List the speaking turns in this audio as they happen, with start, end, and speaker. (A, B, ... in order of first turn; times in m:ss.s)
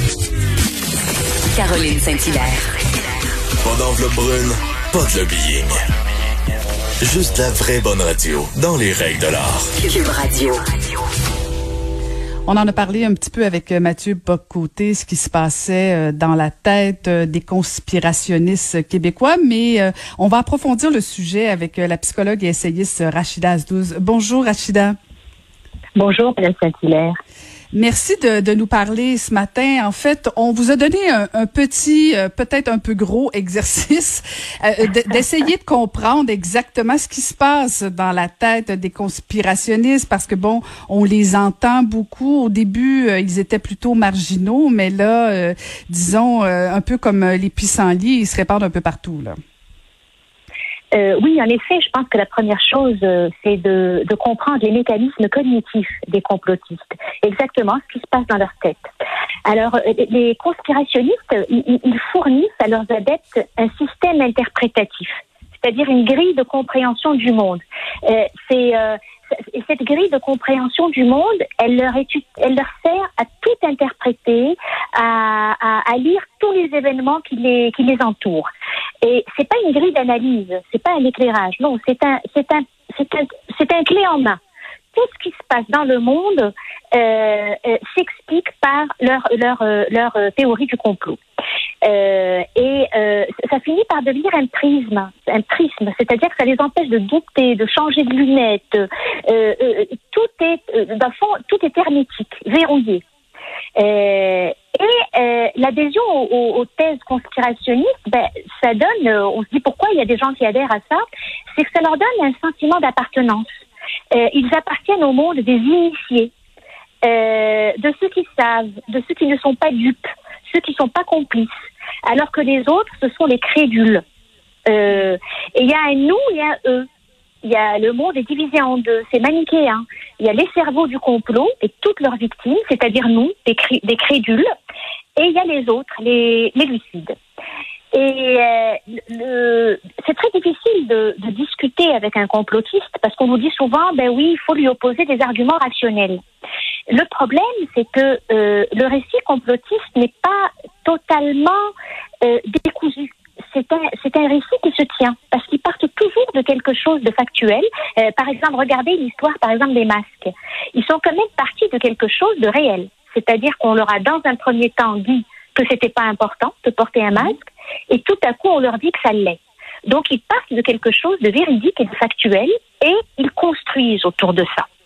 0:01.5-0:02.7 A
0:03.6-0:05.8 B
0:07.0-0:09.7 B
0:09.8-0:10.6 A
0:12.4-0:25.0 C
0:26.0-0:27.2 D
0:27.7-0:49.4 C
0:50.9-0:58.9 D
0:59.4-1:18.5 D
1:19.0-1:24.4 D
1:24.9-1:31.2 D
1:31.8-1:43.0 D
1:43.8-1:51.0 D
1:51.5-1:53.4 D
1:54.1-1:56.3 D
1:57.0-2:01.5 D
2:02.1-2:04.0 D
2:04.7-2:06.9 D
2:07.4-2:14.5 D
2:15.2-2:17.2 D
2:17.9-2:26.2 D
2:26.9-2:31.7 D
2:32.2-2:54.7 D